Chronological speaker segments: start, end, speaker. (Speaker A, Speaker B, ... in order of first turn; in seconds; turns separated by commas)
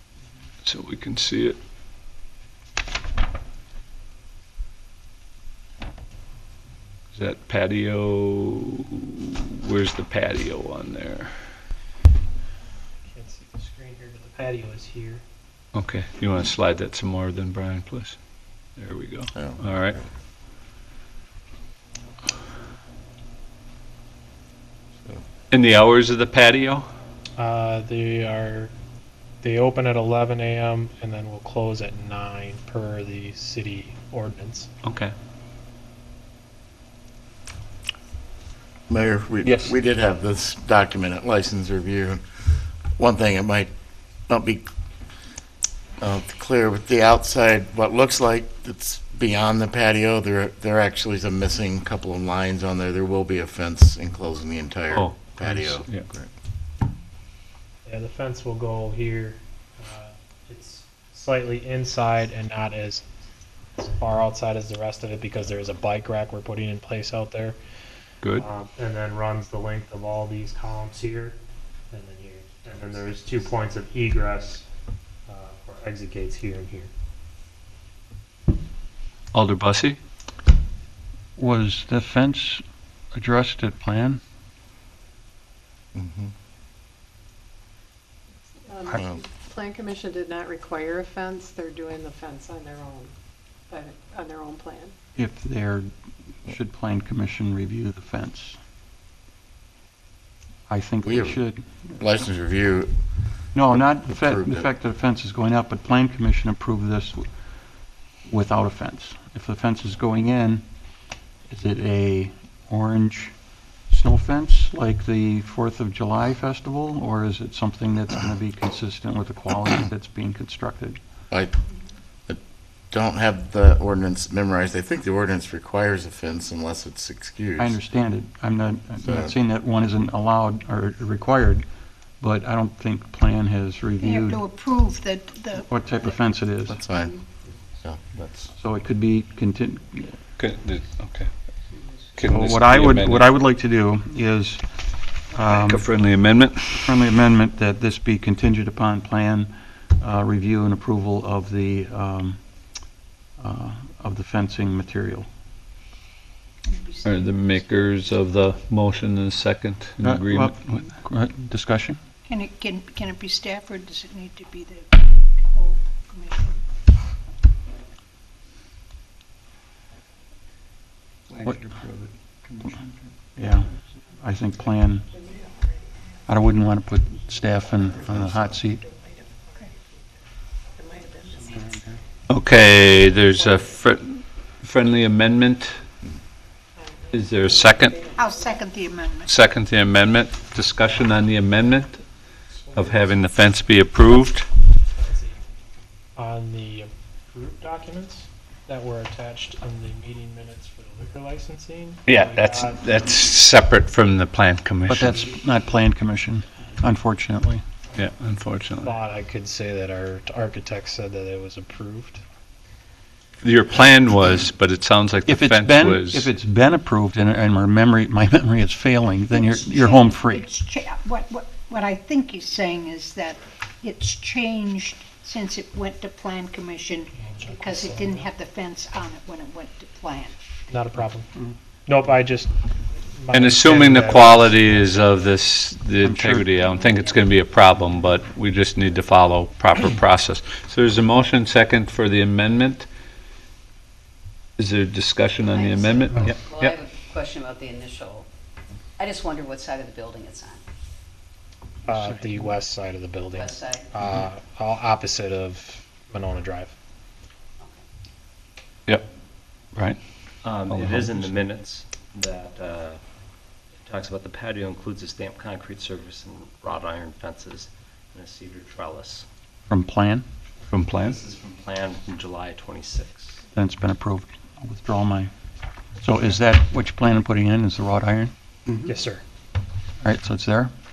Speaker A: 0.6-1.6, Speaker A: 7.1-11.5, Speaker B: 13.1-15.2, Speaker A: 15.7-18.2, Speaker A: 18.8-20.0, Speaker C: 19.3-20.1, Speaker A: 25.5-26.9, Speaker B: 27.4-28.7, Speaker B: 29.4-34.7, Speaker A: 34.8-35.1, Speaker C: 38.9-42.2, Speaker A: 39.4-39.7, Speaker C: 43.0-43.7, Speaker C: 44.3-44.6, Speaker C: 46.0-56.3, Speaker A: 54.9-56.0, Speaker B: 57.8-63.0, Speaker B: 63.8-67.6, Speaker A: 68.2-68.5, Speaker B: 68.3-71.4, Speaker B: 71.9-74.6, Speaker B: 75.3-76.9, Speaker A: 79.3-80.0, Speaker D: 81.4-84.2, Speaker C: 85.9-86.3, Speaker E: 88.6-93.1, Speaker C: 88.9-89.2, Speaker E: 93.7-94.9, Speaker D: 95.2-98.6, Speaker D: 100.7-101.9, Speaker C: 101.0-101.4, Speaker C: 101.9-102.9, Speaker D: 103.5-107.3, Speaker C: 103.6-104.7, Speaker D: 108.2-110.7, Speaker D: 111.5-121.0, Speaker C: 121.3-121.6, Speaker C: 122.9-127.8, Speaker D: 127.6-131.7, Speaker C: 129.0-129.3, Speaker D: 132.2-134.4, Speaker F: 134.0-136.2, Speaker D: 135.7-136.8, Speaker C: 136.7-137.2, Speaker C: 137.8-138.5, Speaker D: 138.5-140.2, Speaker A: 140.4-141.3, Speaker A: 142.2-143.3, Speaker D: 142.3-145.9, Speaker A: 145.4-146.9, Speaker D: 146.7-152.4, Speaker D: 153.4-155.3, Speaker F: 156.7-157.4, Speaker A: 157.0-160.8, Speaker D: 160.0-162.0, Speaker F: 162.2-166.6, Speaker A: 171.3-173.1, Speaker D: 173.3-175.1, Speaker E: 175.1-175.8, Speaker D: 176.3-178.8, Speaker E: 178.2-179.8, Speaker E: 180.8-181.7, Speaker A: 182.3-185.8, Speaker E: 183.3-183.5, Speaker E: 186.8-188.5, Speaker A: 187.1-188.0, Speaker F: 188.2-189.3, Speaker A: 189.3-192.1, Speaker B: 192.5-193.2, Speaker A: 192.7-194.5, Speaker B: 194.8-195.6, Speaker B: 196.2-203.1, Speaker A: 202.1-205.2, Speaker D: 204.9-207.6, Speaker A: 207.9-208.9, Speaker B: 208.8-212.2, Speaker A: 213.4-216.3, Speaker D: 215.2-220.5, Speaker F: 219.3-230.3, Speaker B: 227.2-228.3, Speaker B: 230.7-231.3, Speaker B: 231.8-232.5, Speaker B: 233.1-235.0, Speaker A: 233.3-242.9, Speaker D: 236.0-236.6, Speaker G: 236.6-237.2, Speaker A: 244.6-246.8, Speaker G: 245.5-248.3, Speaker G: 249.0-250.6, Speaker B: 251.8-256.8, Speaker D: 252.0-252.2, Speaker G: 253.3-253.9, Speaker H: 260.4-263.0, Speaker A: 260.7-261.4, Speaker H: 263.8-269.3, Speaker D: 269.7-270.3, Speaker A: 270.7-271.2, Speaker H: 271.0-273.4, Speaker D: 273.5-275.3, Speaker D: 276.0-278.3, Speaker B: 278.8-279.2, Speaker D: 280.0-280.7